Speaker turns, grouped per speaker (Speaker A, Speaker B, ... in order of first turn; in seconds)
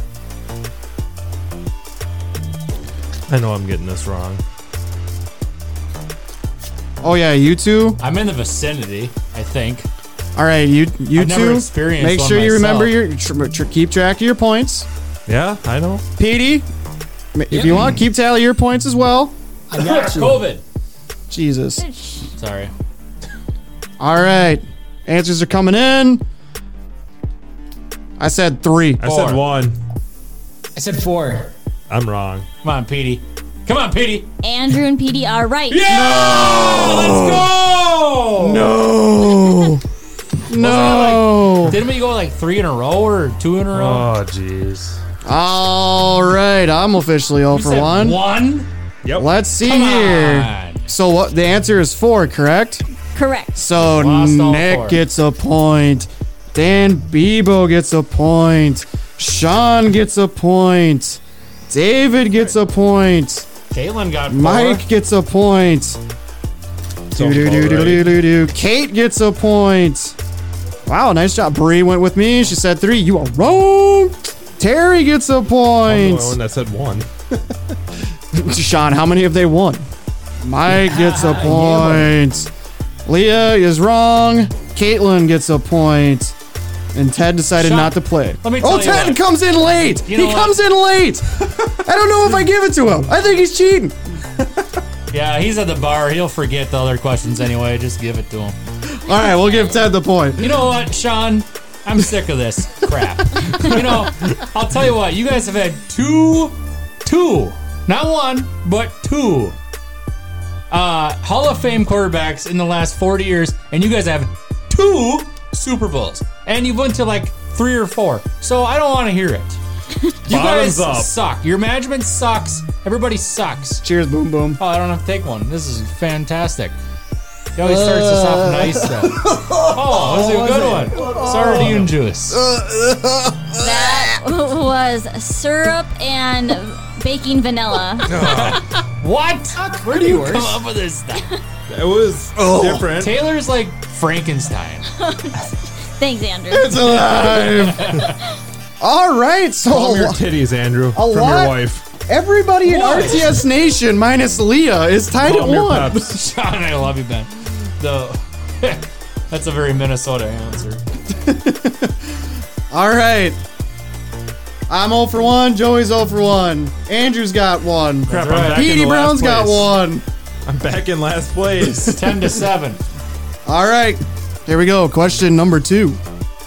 Speaker A: 3.3-4.4, 15.3-16.0, 29.0-29.8, 31.9-32.5, 36.0-38.5, 43.7-45.0, 49.0-49.3, 67.1-68.2, 75.8-77.8, 120.3-121.1, 131.6-131.8, 138.0-138.7, 141.7-143.2, 149.7-151.8, 155.2-156.1, 168.1-169.7, 170.4-172.0
Speaker B: 7.0-8.0, 10.3-14.9, 16.2-16.6, 17.3-19.3, 21.3-21.8, 24.0-26.2, 28.2-29.0, 35.9-37.5, 38.4-39.8, 40.5-41.8, 45.2-48.2, 49.1-52.8, 53.5-63.5, 64.3-66.0, 67.1-70.2, 70.8-76.4, 78.3-79.8, 80.4-82.5, 83.0-86.3, 86.9-94.0, 98.9-100.6, 123.8-124.6, 127.6-134.2, 139.6-140.6, 142.3-142.9, 146.5-148.0, 148.8-150.2, 150.9-156.1, 161.1-162.2, 162.7-163.4, 164.7-170.0, 173.4-176.0
Speaker C: 8.0-9.9, 11.1-13.0, 19.7-20.6, 22.3-22.7, 29.0-29.4, 32.6-34.3, 35.7-38.3, 40.5-44.1, 47.5-48.7, 49.6-50.9, 53.7-55.0, 63.7-64.8, 87.6-89.2, 90.0-90.6, 95.1-98.5, 100.4-109.5, 110.7-119.6, 120.2-123.8, 124.6-126.7, 127.5-132.4, 138.1-141.3, 142.9-144.9, 147.1-148.0, 152.7-153.2, 156.0-160.8, 168.1-168.7, 171.8-172.8
Speaker D: 17.5-17.9, 19.7-20.5, 30.8-31.5, 80.7-82.0, 152.8-153.3
Speaker E: 21.8-22.3, 34.4-35.9, 53.1-53.6, 99.3-99.6, 133.6-138.3, 144.9-146.9